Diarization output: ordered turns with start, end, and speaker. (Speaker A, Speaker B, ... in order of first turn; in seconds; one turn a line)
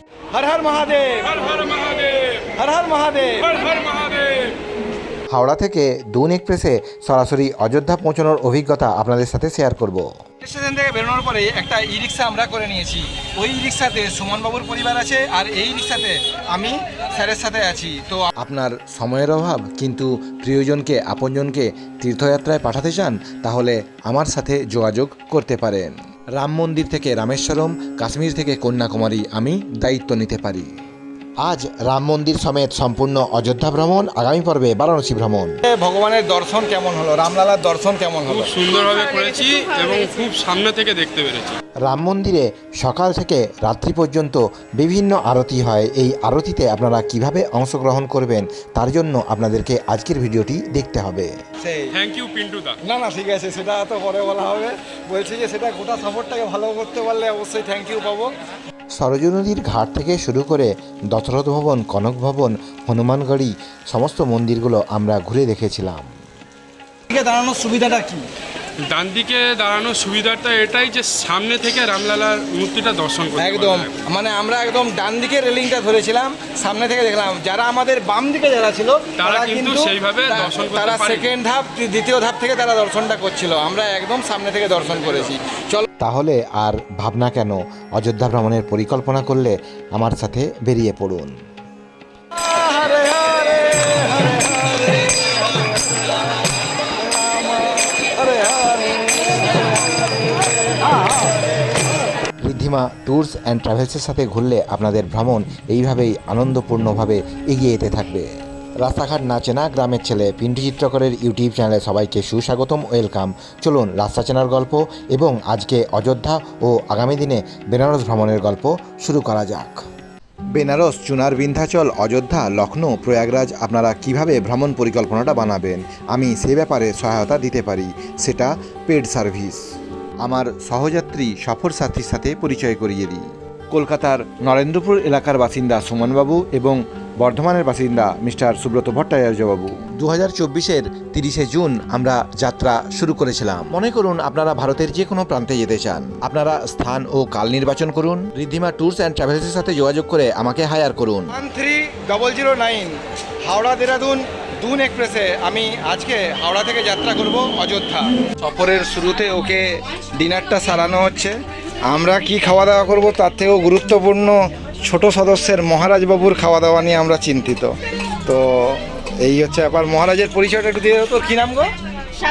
Speaker A: 0.3-4.5
Speaker B: 5.3-10.1
Speaker A: 10.4-18.3
Speaker B: 18.4-30.7
Speaker B: 31.4-35.5
Speaker A: 35.6-38.5
Speaker C: 38.3-41.5
Speaker B: 41.8-51.3
Speaker A: 51.6-51.9
Speaker C: 51.9-52.8
Speaker A: 52.8-58.3
Speaker B: 59.0-66.1
Speaker A: 67.1-68.3
Speaker C: 68.8-74.0
Speaker A: 73.3-85.9
Speaker C: 79.2-81.3
Speaker B: 86.0-91.3
Speaker A: 92.3-101.4
Speaker B: 102.4-119.8
Speaker B: 120.5-129.6
Speaker B: 130.2-151.3
Speaker A: 151.3-171.7